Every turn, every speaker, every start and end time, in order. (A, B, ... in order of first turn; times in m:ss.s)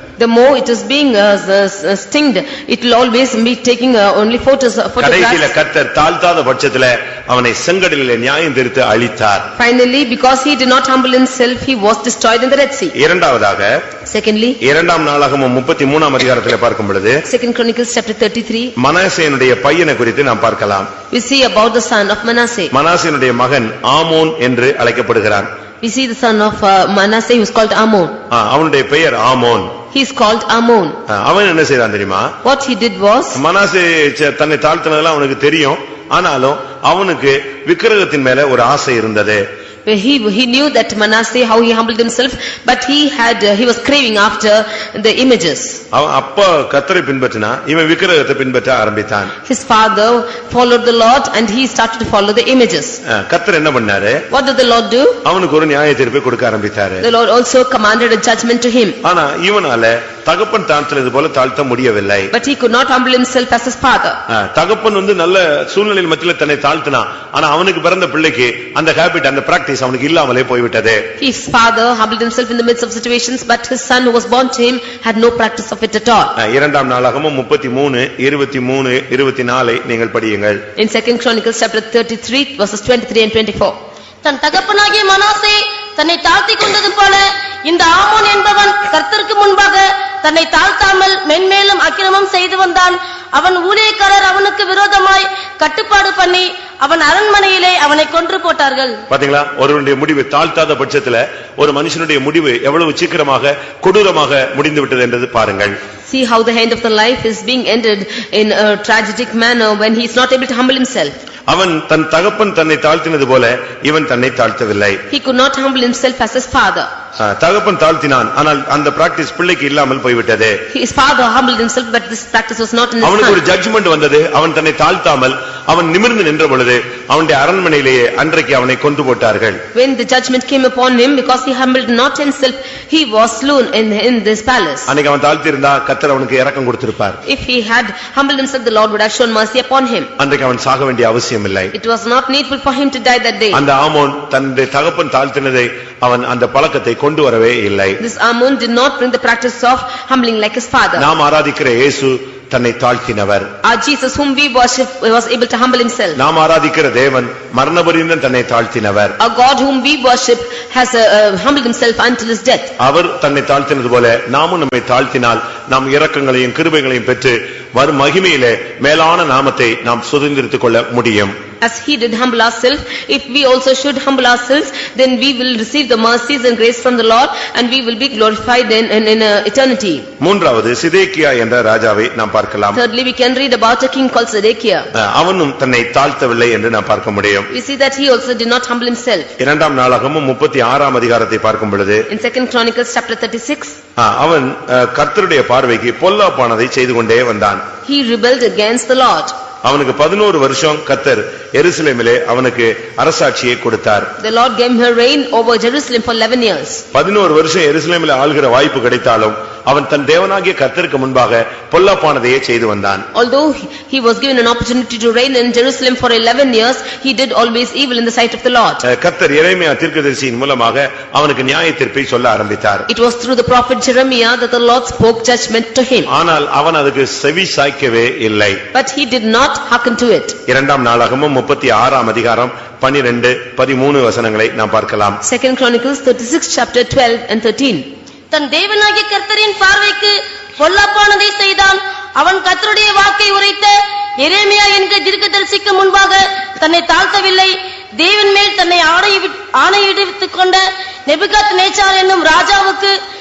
0:00.2-0:05.5 A
0:05.0-0:09.5 B
0:09.6-0:12.9 A
0:12.9-0:13.7 B
0:14.1-0:14.6 A
0:14.6-0:17.2 B
0:17.3-0:18.7 A
0:18.8-0:20.9 B
0:21.1-0:22.7 A
0:22.7-0:25.5 B
0:25.8-0:28.1 A
0:28.3-0:29.8 B
0:29.9-0:31.0 A
0:31.1-0:32.3 B
0:32.4-0:33.4 A
0:33.3-0:39.4 B
0:39.8-0:45.8 A
0:45.9-0:49.3 B
0:49.4-0:53.0 A
0:53.0-0:54.2 B
0:54.3-0:55.2 A
0:55.2-0:57.0 B
0:57.0-0:59.0 A
0:59.0-1:02.3 B
1:02.3-1:04.2 A
1:04.3-1:11.0 B
1:11.2-1:16.3 A
1:16.4-1:20.6 B
1:20.8-1:23.8 A
1:24.2-1:39.0 C
1:39.1-1:45.7 B
1:46.1-1:51.1 A
1:51.5-1:55.0 B
1:55.1-1:56.9 A
1:57.2-2:00.6 B
2:00.7-2:03.4 A
2:03.0-2:09.6 B
2:09.7-2:14.9 A
2:14.9-2:17.2 B
2:17.2-2:20.1 A
2:20.2-2:21.7 B
2:21.7-2:23.6 A
2:23.5-2:28.0 B
2:28.0-2:31.1 A
2:31.0-2:33.5 B
2:33.6-2:36.2 A
2:36.2-2:39.2 B
2:39.2-2:42.7 A
2:42.8-2:51.3 B
2:51.6-3:00.0 A
3:00.2-3:02.8 B
3:02.7-3:04.9 A
3:04.9-3:07.5 B
3:07.5-3:09.3 A
3:09.4-3:12.0 B
3:12.1-3:13.8 A
3:14.0-3:17.6 B
3:17.8-3:19.3 A
3:19.6-3:24.1 B
3:24.2-3:26.8 A
3:26.9-3:33.1 B
3:33.1-3:38.8 A
3:38.8-3:42.9 B
3:42.9-3:46.1 A
3:46.1-3:48.6 B
3:48.7-3:50.4 A
3:50.5-3:55.2 B
3:55.2-3:57.8 A
3:58.3-4:13.0 C